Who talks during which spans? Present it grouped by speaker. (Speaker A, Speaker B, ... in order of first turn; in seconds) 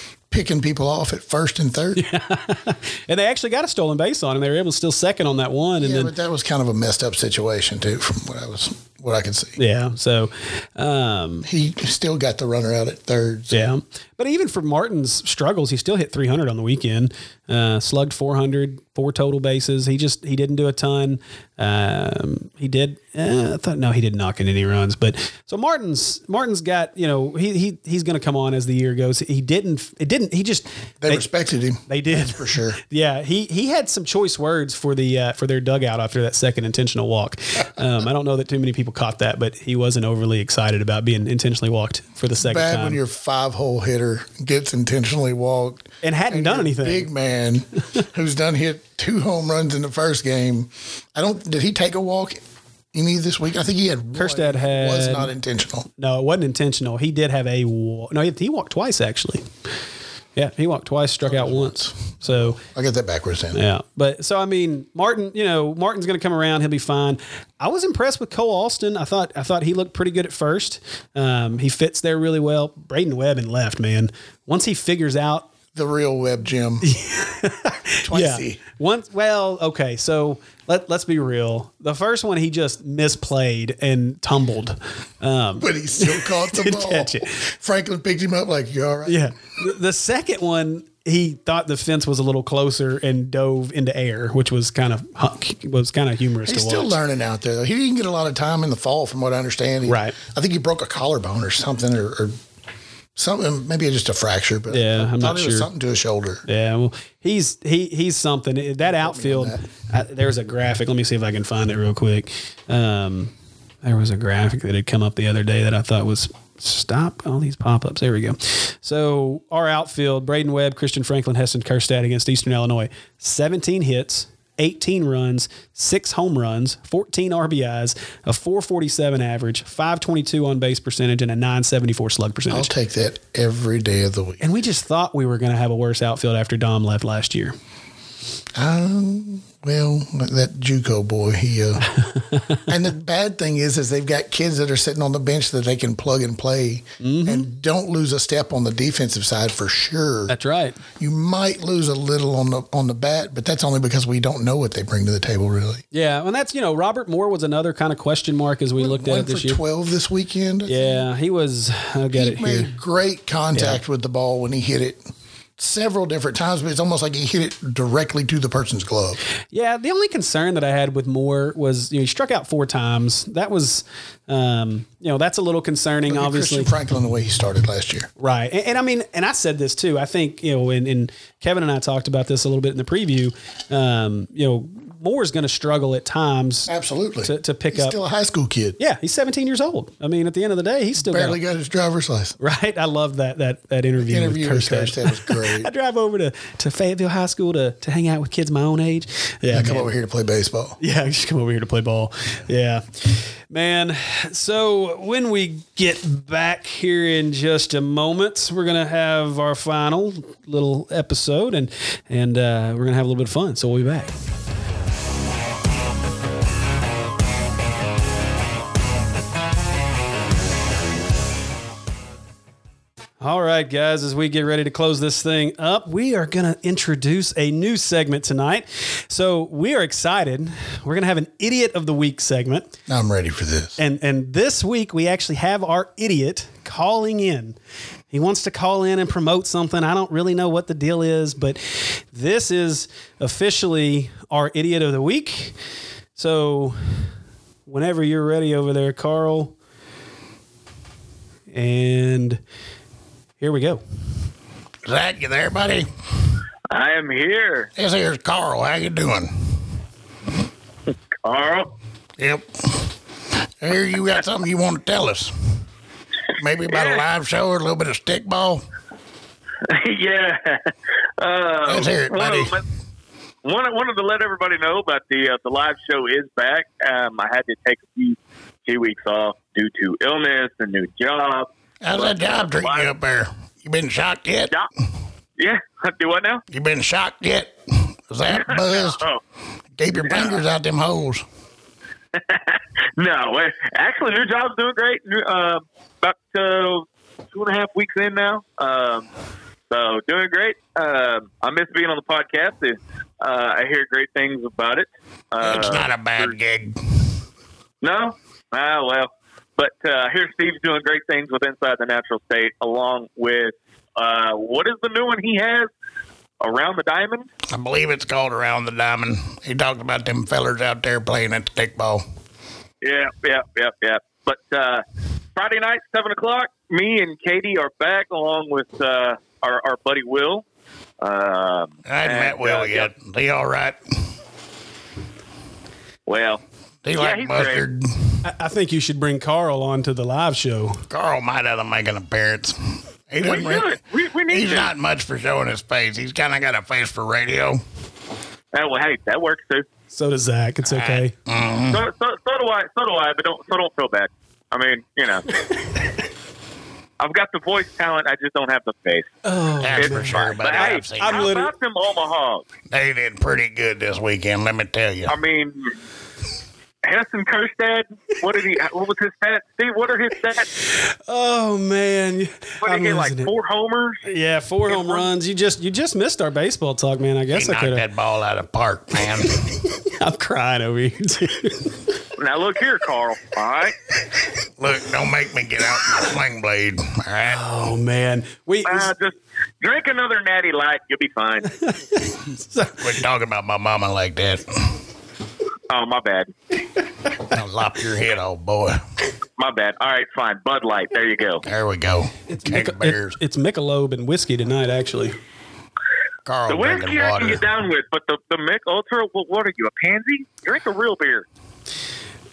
Speaker A: 0.3-2.0, 5.8-9.6, 11.4-13.6, 31.0-32.8, 42.4-52.4, 52.9-55.9, 61.2-63.6, 75.7-76.8, 78.0-78.6, 85.6-89.3, 96.4-102.3, 103.2-106.4, 108.8-109.6, 132.5-134.4, 138.5-141.9, 142.7-150.3, 151.0-155.8, 158.8-161.0, 162.1-165.1, 165.6-169.2, 176.1-178.1, 186.7-188.8, 191.0-192.3, 194.0-195.7, 199.5-200.8, 232.9-233.8, 254.8-255.9, 257.8-259.6, 262.2-262.8, 263.6-265.3, 266.4-268.6, 271.6-272.6, 281.8-284.5, 286.5-289.0, 289.8-291.2, 305.4-306.8, 317.5-322.0, 331.9-333.8, 336.8-338.2, 340.9-342.6, 343.1-343.7, 344.3-347.6, 350.7-351.8, 359.6-361.3, 362.7-365.1, 377.3-379.3, 384.6-387.4, 392.8-394.4, 397.3-398.8, 401.4-403.2, 406.2-407.4
Speaker B: 1.9-6.1, 9.6-11.5, 13.5-31.2, 31.9-43.0, 46.0-47.1, 54.1-55.3, 56.0-59.5, 60.4-62.6, 63.5-75.5, 76.8-87.3, 89.0-97.0, 99.8-100.2, 104.7-105.7, 106.5-113.3, 113.8-132.7, 134.4-137.6, 141.9-142.7, 147.0-147.5, 150.3-150.8, 155.9-159.6, 160.7-162.8, 163.5-163.8, 169.5-176.8, 178.2-186.7, 187.2-188.0, 188.8-191.4, 192.4-199.9, 200.8-214.1, 223.2-232.7, 233.8-237.6, 238.1-245.6, 246.2-247.1, 247.7-249.5, 251.5-252.4, 253.4-253.8, 338.2-340.8, 349.9-351.1, 359.2-361.5, 370.7-373.3, 374.0-377.9, 379.4-381.8, 387.2-388.9, 391.6-392.8, 402.3-405.2
Speaker C: 256.7-257.7, 261.2-261.7, 266.7-267.0, 269.7-272.6, 273.4-282.9, 285.4-286.4, 288.3-289.2, 290.0-290.4, 292.1-299.1, 299.7-306.4, 307.8-315.7, 316.4-317.3, 322.8-324.8, 325.3-330.4, 331.0-332.9, 336.1-336.4, 336.9-337.6, 343.2-344.7, 348.5-349.6, 351.7-355.3, 357.0-359.1, 359.7-362.4, 365.1-365.7, 366.8-370.5, 372.6-374.0, 374.6-375.1, 382.2-383.7, 388.6-391.5, 395.7-396.3, 399.4-401.4, 406.5-411.2